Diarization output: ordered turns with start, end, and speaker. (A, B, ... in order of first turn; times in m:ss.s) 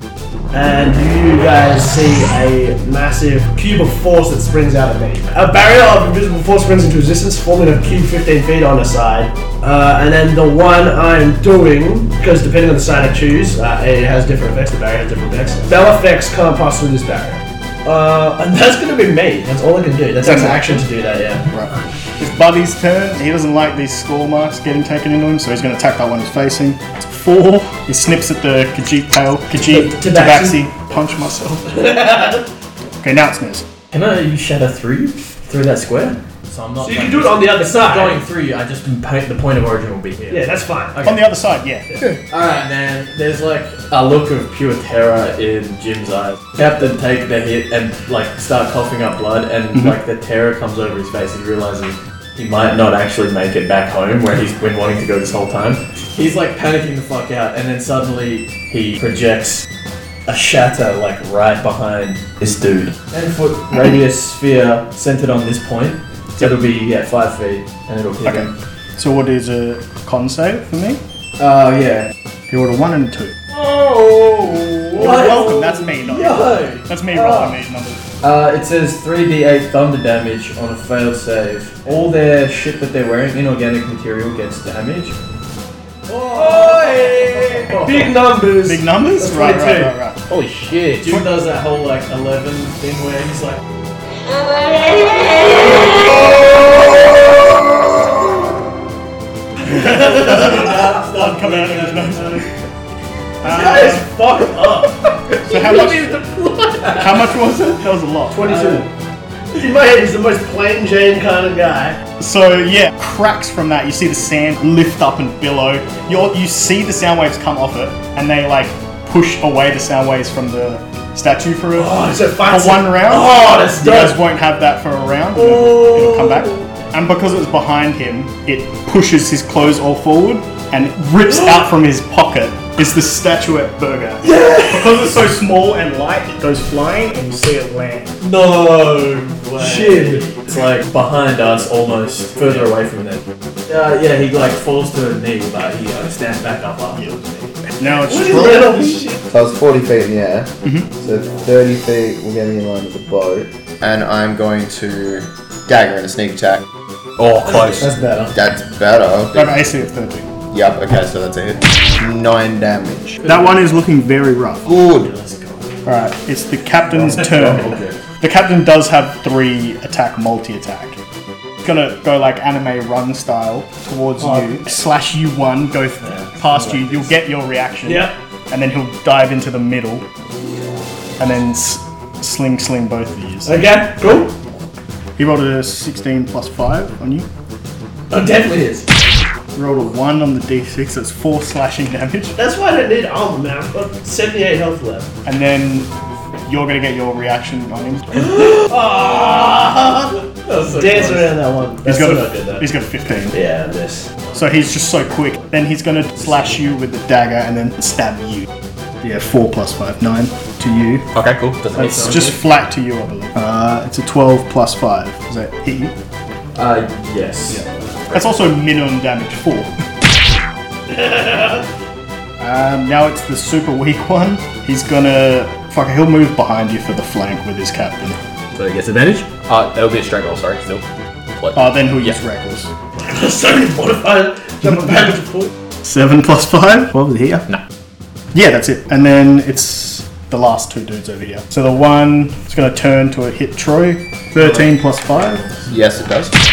0:00.5-0:21.5 A
0:20.2-0:20.8 B
0:21.5-0:31.7 B
0:29.6-0:30.7 A
0:31.6-0:32.5 A
0:33.0-0:33.6 B
0:33.9-0:41.3 C
0:36.8-0:38.2 A
0:40.3-0:41.0 A
0:41.0-0:42.0 B
0:42.3-0:59.7 C
1:00.3-1:08.5 C
1:08.2-1:11.0 B
1:11.4-1:12.1 C
1:12.5-1:13.3 B
1:13.5-1:17.5 C
1:14.9-1:18.0 B
1:18.2-1:25.2 C
1:26.3-1:28.1 C
1:26.3-1:27.0 A
1:26.5-1:27.7 D
1:27.7-1:29.9 A
1:28.6-1:30.2 B
1:30.3-1:31.2 D
1:31.0-1:33.6 C
1:39.7-1:40.6 A
1:39.7-1:42.5 B
1:40.2-1:42.2 C
1:43.4-1:44.0 B
1:43.4-1:45.0 A
1:45.4-1:46.3 B
1:45.5-1:45.9 D
1:45.5-1:47.0 C
1:46.9-1:48.8 B
1:48.3-1:48.9 A
1:49.5-1:52.0 A
1:52.2-2:18.2 B
2:01.7-2:04.2 A
2:05.4-2:06.4 A
2:14.4-2:14.8 C
2:18.2-2:27.5 C
2:19.6-2:20.2 A
2:27.7-2:29.0 B
2:28.0-2:29.2 A
2:29.2-2:36.6 E
2:30.6-2:30.9 B
2:37.2-2:37.9 D
2:37.4-2:38.4 A
2:38.3-2:39.7 E
2:39.3-2:40.3 B
2:40.5-2:43.3 E
2:43.2-2:44.7 B
2:44.6-2:45.1 E
2:44.9-2:45.7 C
2:45.8-2:51.0 B
2:47.2-2:47.8 C
2:51.6-3:00.0 B
2:54.2-2:54.6 A
2:57.8-2:58.1 A
3:01.2-3:03.6 B
3:03.4-3:04.3 A
3:05.2-3:07.3 B
3:08.1-3:08.9 A
3:09.5-3:12.4 B
3:12.4-3:15.1 A
3:15.2-3:15.9 B
3:16.4-3:18.3 B
3:18.2-3:22.6 A
3:20.4-3:21.3 C
3:21.8-3:23.4 B
3:23.3-3:24.2 A
3:24.3-3:28.5 B
3:29.0-3:31.1 B
3:31.1-3:32.2 D
3:31.7-3:32.4 C
3:31.7-3:35.9 B
3:36.5-3:37.6 C
3:37.5-3:39.7 B
3:40.9-3:41.6 A
3:42.4-3:48.2 B
3:48.5-3:50.8 D
3:51.3-3:52.2 D
3:51.5-3:52.7 B
3:52.9-3:55.5 A
3:55.8-3:57.5 B
3:58.3-4:05.4 B
4:05.7-4:06.3 E